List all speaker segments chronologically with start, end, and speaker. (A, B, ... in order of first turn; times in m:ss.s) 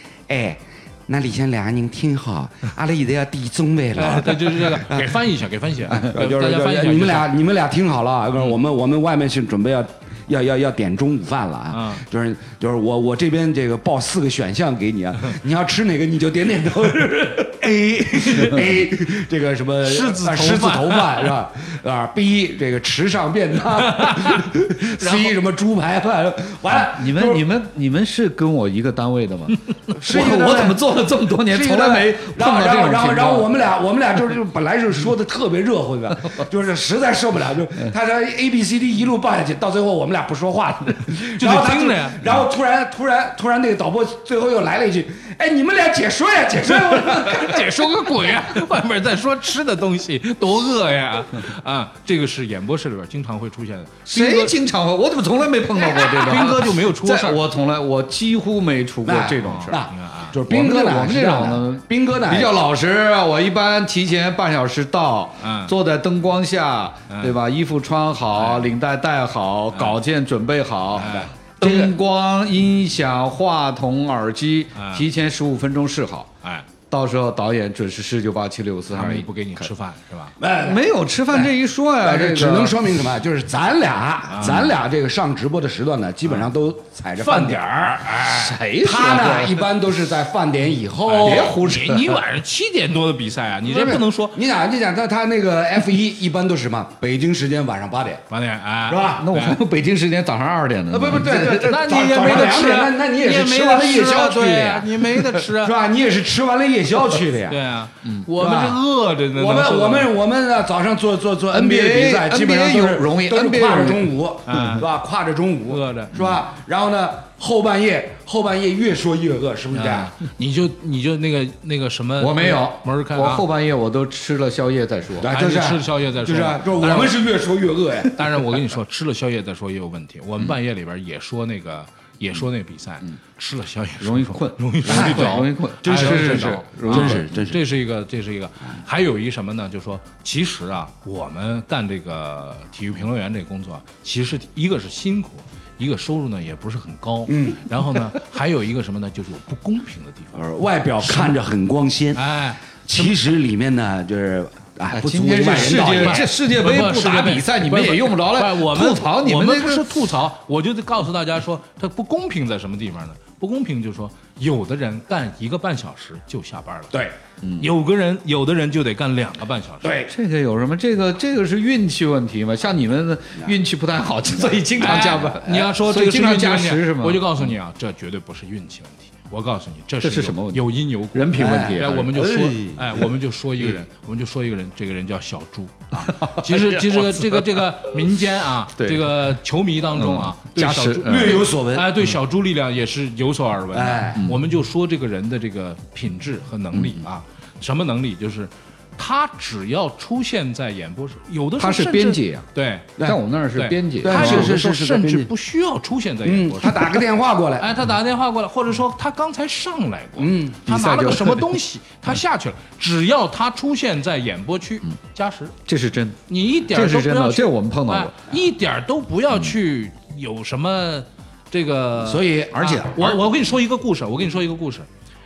0:00.3-0:05.1 A
0:04.0-0:07.3 B
0:05.9-0:27.4 A
0:11.7-0:12.0 B
0:18.1-0:18.6 B
0:19.8-0:21.3 B
0:23.8-0:25.3 B
0:26.9-0:33.5 C
0:30.0-0:30.8 A
0:31.4-0:48.5 A
0:41.4-0:42.3 B
0:46.9-0:54.6 B
0:54.1-0:59.8 C
0:55.8-0:56.6 A
0:56.2-0:57.4 B
0:59.0-1:02.6 A
0:59.4-1:00.3 B
1:00.4-1:16.3 C
1:05.4-1:05.7 B
1:07.1-1:07.4 B
1:08.3-1:08.7 B
1:09.7-1:10.0 B
1:10.9-1:11.3 B
1:11.0-1:11.9 A
1:14.8-1:15.0 B
1:16.9-1:19.7 C
1:18.9-1:20.3 B
1:20.4-1:28.1 A
1:20.6-1:22.8 C
1:24.3-1:24.7 B
1:27.2-1:28.6 B
1:28.3-1:29.6 C
1:28.8-1:31.6 A
1:31.0-1:34.4 B
1:31.2-1:32.2 C
1:33.6-1:38.2 A
1:38.3-1:39.6 B
1:38.9-1:39.2 A
1:39.1-1:41.8 C
1:40.9-1:47.6 A
1:41.3-1:45.7 B
1:47.5-1:50.1 B
1:48.4-1:48.8 A
1:49.3-2:00.1 A
1:51.5-1:54.8 C
1:54.5-1:54.8 B
1:55.7-1:56.2 B
1:59.7-2:03.4 B
2:02.2-2:05.3 C
2:05.2-2:08.4 A
2:05.3-2:07.2 B
2:08.1-2:30.4 B
2:14.0-2:17.3 C
2:14.8-2:17.6 A
2:27.3-2:27.7 A
2:30.3-2:32.3 A
2:31.0-2:31.3 B
2:32.1-2:33.1 B
2:32.8-2:36.3 A
2:34.9-2:39.8 C
2:35.6-2:47.0 B
2:47.4-2:47.7 C
2:47.6-2:50.0 B
2:49.8-2:50.1 A
2:50.1-2:57.4 C
2:54.8-3:22.9 B
3:00.0-3:02.2 C
3:01.3-3:03.0 A
3:05.9-3:08.0 C
3:08.8-3:09.3 C
3:09.9-3:11.5 C
3:11.0-3:11.9 A
3:13.7-3:14.3 A
3:16.7-3:17.0 C
3:21.6-3:22.4 C
3:23.0-3:24.6 C
3:23.5-3:27.0 B
3:24.0-3:25.3 A
3:26.2-3:27.7 A
3:27.6-3:35.6 B
3:30.2-3:30.6 A
3:30.6-3:31.5 C
3:35.7-3:38.3 C
3:36.3-3:44.9 B
3:42.0-3:43.2 A